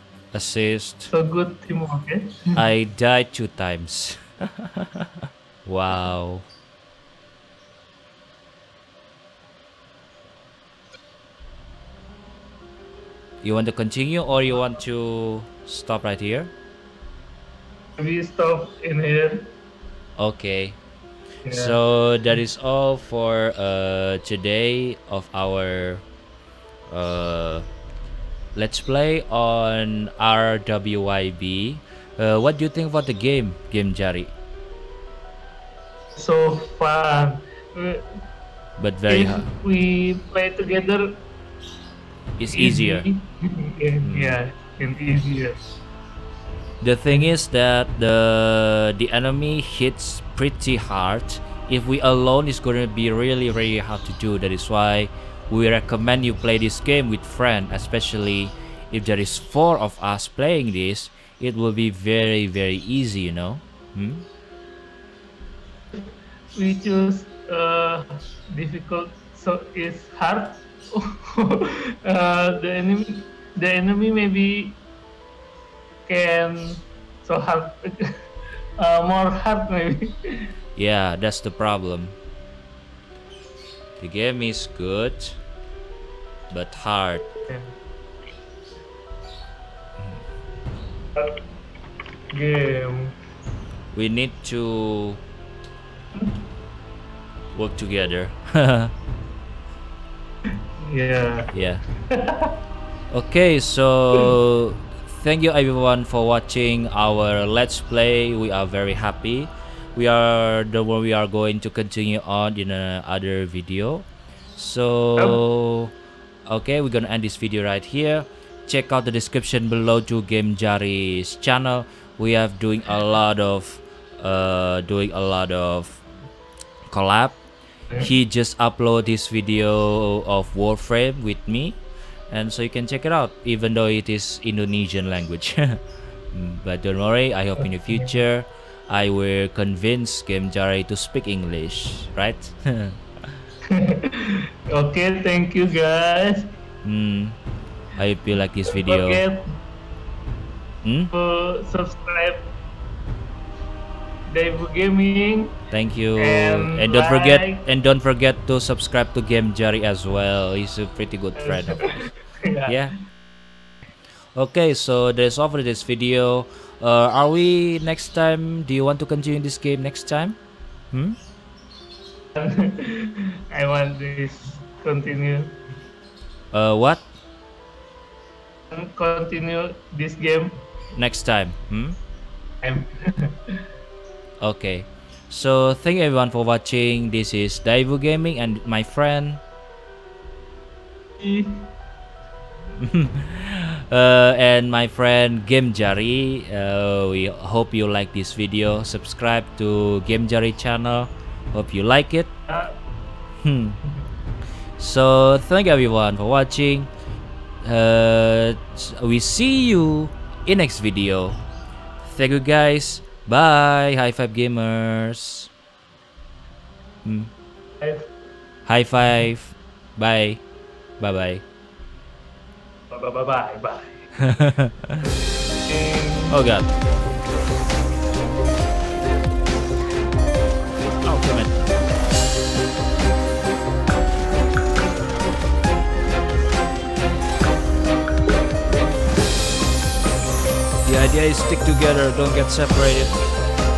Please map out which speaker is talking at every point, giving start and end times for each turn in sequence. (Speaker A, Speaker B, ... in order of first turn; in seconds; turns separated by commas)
Speaker A: 0.3-1.1, Speaker B: 1.1-2.5, Speaker A: 2.5-6.5, Speaker A: 13.4-16.5, Speaker B: 18.0-19.5, Speaker A: 20.2-20.8, Speaker B: 21.4-21.8, Speaker A: 21.5-26.0, Speaker A: 26.9-27.6, Speaker A: 28.6-34.3, Speaker B: 36.2-38.1, Speaker A: 38.8-39.5, Speaker B: 39.1-41.2, Speaker A: 42.4-43.1, Speaker B: 42.5-45.6, Speaker A: 44.0-44.4, Speaker A: 46.8-64.2, Speaker B: 65.9-74.8, Speaker B: 76.1-78.2, Speaker B: 78.8-80.5, Speaker A: 80.8-82.2, Speaker A: 84.0-85.4, Speaker A: 86.5-87.3, Speaker B: 92.3-93.2, Speaker A: 93.9-95.2, Speaker B: 96.2-96.4, Speaker A: 97.5-98.9, Speaker B: 100.8-101.5, Speaker A: 101.5-101.8, Speaker B: 102.1-102.5, Speaker A: 103.1-115.9, Speaker A: 116.5-126.0, Speaker A: 126.9-127.4, Speaker A: 128.0-131.8, Speaker A: 132.3-143.0, Speaker B: 143.7-146.5, Speaker A: 146.8-147.4, Speaker A: 148.0-149.2, Speaker B: 148.7-149.5, Speaker A: 150.8-151.1, Speaker B: 151.1-152.5, Speaker B: 154.3-155.6, Speaker A: 155.7-162.1, Speaker B: 156.2-157.7, Speaker B: 161.4-162.9, Speaker A: 162.7-162.9, Speaker A: 164.3-170.4, Speaker A: 170.9-171.2, Speaker B: 172.4-175.6, Speaker A: 176.5-177.0, Speaker B: 178.7-180.6, Speaker A: 180.9-182.0, Speaker B: 182.6-183.4, Speaker A: 184.4-189.4, Speaker B: 191.2-191.7, Speaker A: 192.8-202.3, Speaker B: 202.5-202.8, Speaker A: 203.4-203.8, Speaker A: 204.8-206.9, Speaker A: 207.6-211.4, Speaker A: 212.0-215.5, Speaker A: 217.0-217.3, Speaker B: 217.8-218.1, Speaker A: 218.7-220.4, Speaker A: 221.0-221.4, Speaker B: 222.9-224.0, Speaker A: 224.2-225.0, Speaker B: 225.7-226.3, Speaker A: 226.3-226.7, Speaker A: 231.0-231.6, Speaker A: 240.8-243.2